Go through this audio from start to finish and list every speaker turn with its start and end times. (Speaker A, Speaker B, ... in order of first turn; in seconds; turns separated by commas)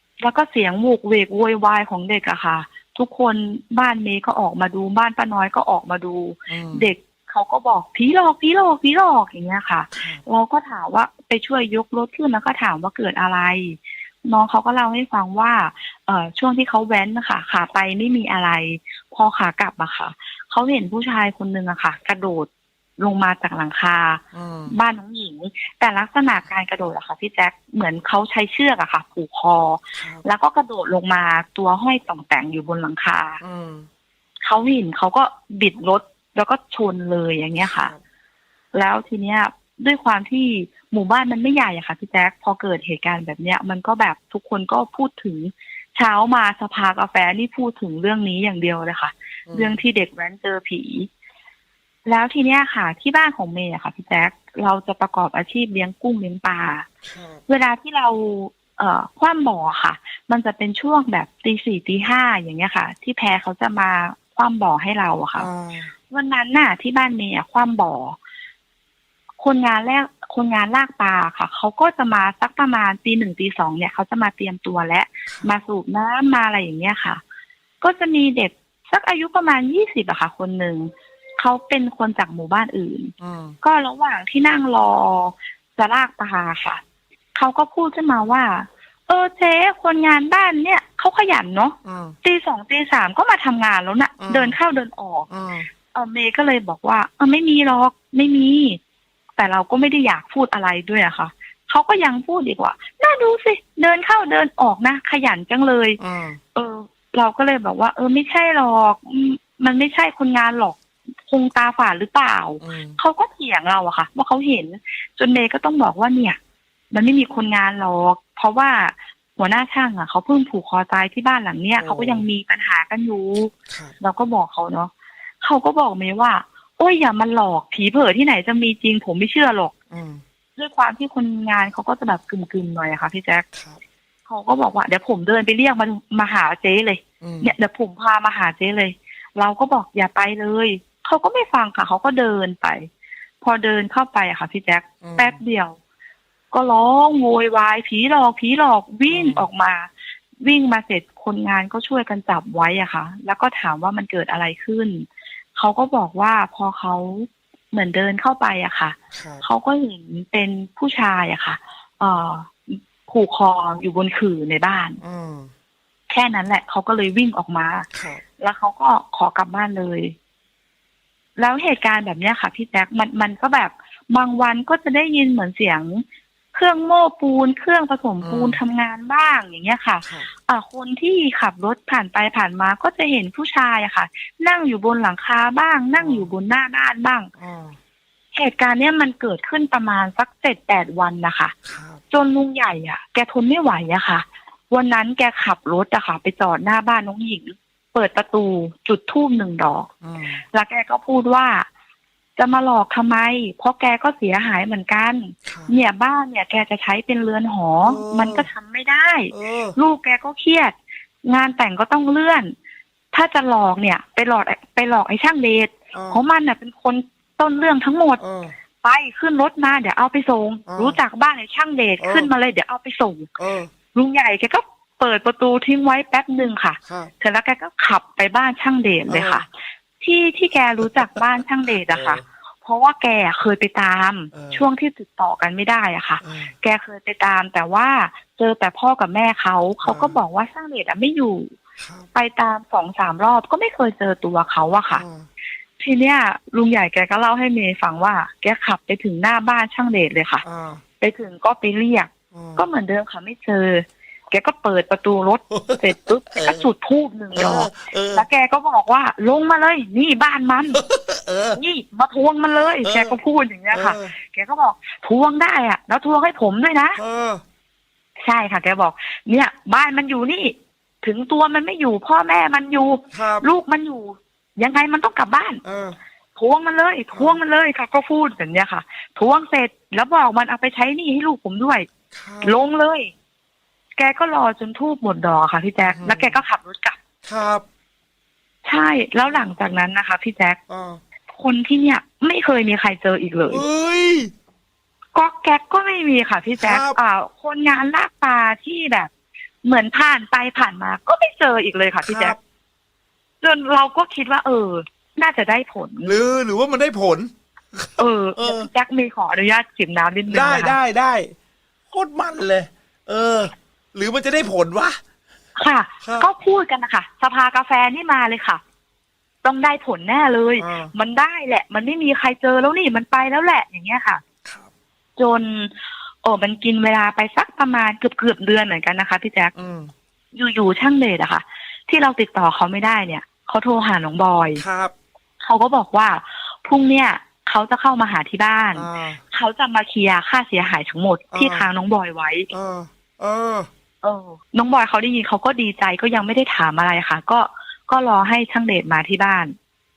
Speaker A: 0.2-33.4, Speaker B: 6.5-6.9, Speaker B: 9.9-10.2, Speaker B: 24.3-24.8, Speaker B: 29.9-30.2, Speaker B: 33.4-33.9, Speaker A: 34.4-37.9, Speaker B: 37.6-38.0, Speaker A: 38.7-51.1, Speaker B: 49.5-49.8, Speaker A: 52.1-56.9, Speaker B: 57.0-57.4, Speaker A: 57.5-65.5, Speaker B: 65.4-65.9, Speaker A: 66.1-68.2, Speaker A: 69.4-77.2, Speaker A: 77.8-86.8, Speaker B: 83.2-83.6, Speaker A: 87.4-95.3, Speaker B: 91.8-92.2, Speaker B: 94.2-94.6, Speaker B: 95.3-95.7, Speaker A: 95.9-98.8, Speaker A: 99.4-106.0, Speaker B: 106.0-106.4, Speaker A: 106.5-116.4, Speaker B: 112.6-113.0, Speaker A: 116.9-124.9, Speaker B: 121.8-122.2, Speaker B: 123.7-124.0, Speaker A: 125.4-129.7, Speaker B: 129.9-130.2, Speaker A: 130.6-133.4, Speaker B: 133.5-133.8, Speaker A: 134.3-142.9, Speaker B: 137.2-137.6, Speaker A: 143.4-145.8, Speaker B: 145.0-145.4, Speaker A: 146.5-165.0, Speaker B: 149.1-149.5, Speaker B: 159.1-159.4, Speaker B: 165.0-165.5, Speaker A: 166.1-167.9, Speaker B: 167.9-168.2, Speaker A: 168.4-170.1, Speaker A: 171.4-187.3, Speaker B: 178.2-178.6, Speaker B: 180.0-180.3, Speaker B: 185.9-186.3, Speaker B: 187.4-187.8, Speaker A: 188.3-191.5, Speaker B: 191.6-192.0, Speaker A: 192.1-199.9, Speaker B: 200.0-200.4, Speaker A: 200.5-201.7, Speaker A: 202.4-212.5, Speaker B: 205.4-205.7, Speaker B: 207.8-208.5, Speaker B: 209.3-209.8, Speaker A: 213.1-218.2, Speaker B: 215.9-216.2, Speaker B: 218.2-218.6, Speaker A: 218.8-223.3, Speaker B: 220.7-221.0, Speaker B: 222.0-222.3, Speaker B: 223.4-223.7, Speaker A: 223.9-229.5, Speaker B: 226.8-227.1, Speaker B: 229.1-229.4, Speaker A: 230.0-241.5, Speaker B: 230.8-231.1, Speaker B: 231.9-232.2, Speaker B: 234.3-234.7, Speaker B: 236.2-236.5, Speaker B: 239.8-240.2, Speaker B: 241.8-242.1, Speaker A: 242.1-245.0, Speaker B: 244.9-245.3, Speaker A: 245.8-250.4, Speaker B: 250.4-250.8, Speaker A: 251.0-260.8, Speaker B: 252.3-252.6, Speaker B: 255.5-256.6, Speaker B: 257.4-258.2, Speaker B: 260.7-261.6, Speaker A: 261.6-267.0, Speaker B: 262.8-263.2, Speaker B: 263.7-264.1, Speaker B: 267.0-267.4, Speaker A: 268.2-275.6, Speaker B: 273.1-273.5, Speaker B: 275.6-276.0, Speaker A: 276.4-281.9, Speaker B: 277.1-277.4, Speaker B: 282.1-282.6, Speaker A: 282.4-283.1, Speaker A: 284.0-287.0, Speaker B: 285.8-286.4, Speaker B: 287.2-287.6, Speaker A: 288.6-290.6, Speaker B: 289.3-289.6, Speaker B: 290.7-291.0, Speaker A: 291.3-293.6, Speaker B: 293.5-294.3, Speaker A: 295.1-299.1, Speaker B: 296.6-297.0, Speaker A: 299.6-302.4, Speaker B: 302.0-302.4, Speaker A: 303.4-306.1, Speaker B: 306.1-308.7, Speaker A: 308.0-310.8, Speaker B: 310.3-311.3, Speaker B: 311.9-315.0, Speaker A: 315.6-318.6, Speaker B: 316.0-316.3, Speaker A: 319.4-324.2, Speaker B: 320.6-320.9, Speaker B: 324.4-324.7, Speaker A: 325.2-329.5, Speaker B: 329.6-329.9, Speaker A: 330.3-334.6, Speaker B: 334.6-334.9, Speaker A: 335.4-342.5, Speaker B: 338.8-339.2, Speaker B: 341.3-341.7, Speaker B: 342.5-343.7, Speaker A: 344.0-349.6